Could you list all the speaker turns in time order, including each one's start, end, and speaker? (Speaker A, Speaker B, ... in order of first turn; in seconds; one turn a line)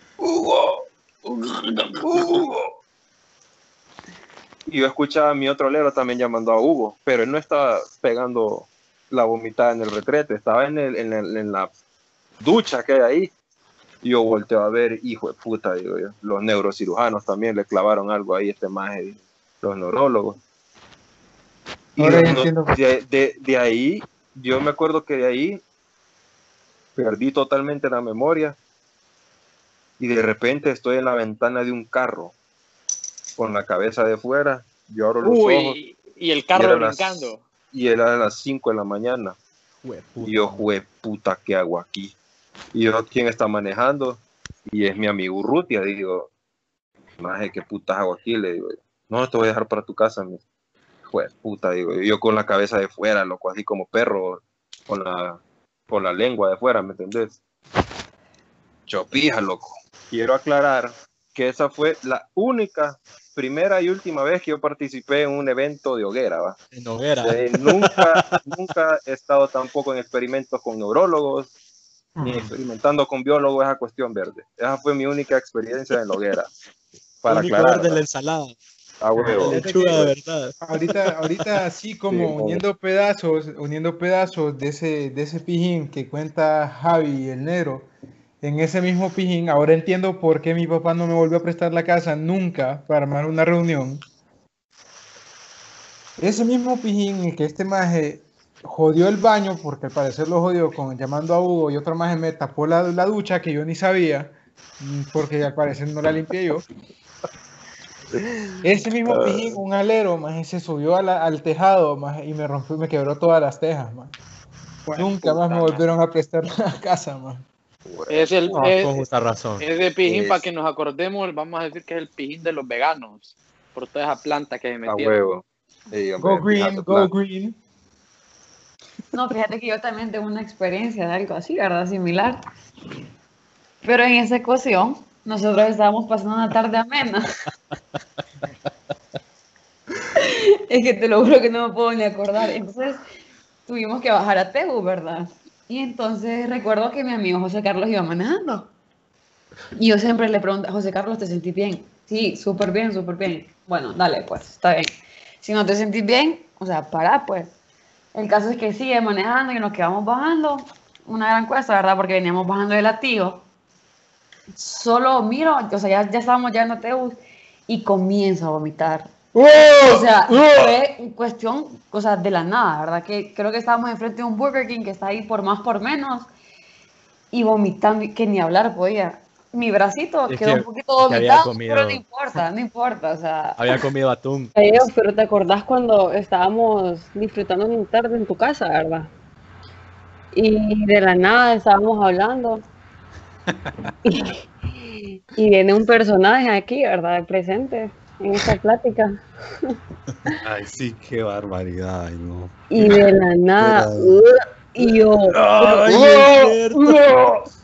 Speaker A: 0.2-2.7
Speaker A: 4.7-11.7
Speaker A: 12.4-13.3
Speaker A: 14.0-20.4
Speaker A: 21.9-25.6
Speaker B: 22.0-22.8
Speaker A: 27.0-28.6
Speaker A: 30.0-32.4
Speaker A: 33.4-35.8
Speaker C: 35.2-37.4
Speaker A: 36.5-39.4
Speaker D: 39.8-40.7
Speaker A: 40.2-42.2
Speaker A: 42.7-46.3
Speaker A: 47.2-50.4
Speaker A: 51.1-57.4
Speaker A: 58.9-66.6
Speaker D: 66.7-68.4
Speaker A: 67.2-71.5
Speaker A: 72.2-76.5
Speaker A: 77.2-78.0
Speaker D: 77.3-78.6
Speaker A: 79.0-80.1
Speaker B: 79.2-80.0
Speaker D: 79.2-81.2
Speaker B: 80.6-87.9
Speaker A: 82.1-82.6
Speaker B: 88.4-94.0
Speaker B: 96.2-106.6
Speaker A: 108.1-109.5
Speaker B: 108.6-114.2
Speaker B: 114.9-117.5
Speaker A: 115.0-115.8
Speaker A: 117.8-118.8
Speaker C: 118.1-119.0
Speaker D: 118.5-119.6
Speaker C: 119.6-125.2
Speaker A: 120.0-120.5
Speaker A: 124.9-127.1
Speaker B: 126.2-127.6
Speaker E: 129.1-132.4
Speaker E: 133.8-137.3
Speaker E: 140.2-143.1
Speaker E: 143.7-148.7
Speaker E: 149.8-154.9
Speaker E: 155.4-157.5
Speaker E: 158.1-163.5
Speaker E: 164.6-169.1
Speaker B: 169.5-170.5
Speaker E: 169.9-176.3
Speaker E: 177.3-183.8
Speaker D: 180.3-182.0
Speaker D: 183.6-184.5
Speaker F: 184.6-189.1
Speaker F: 190.3-192.7
Speaker F: 194.0-199.8
Speaker G: 200.4-204.2
Speaker F: 202.7-205.4
Speaker G: 204.8-206.0
Speaker D: 205.5-207.0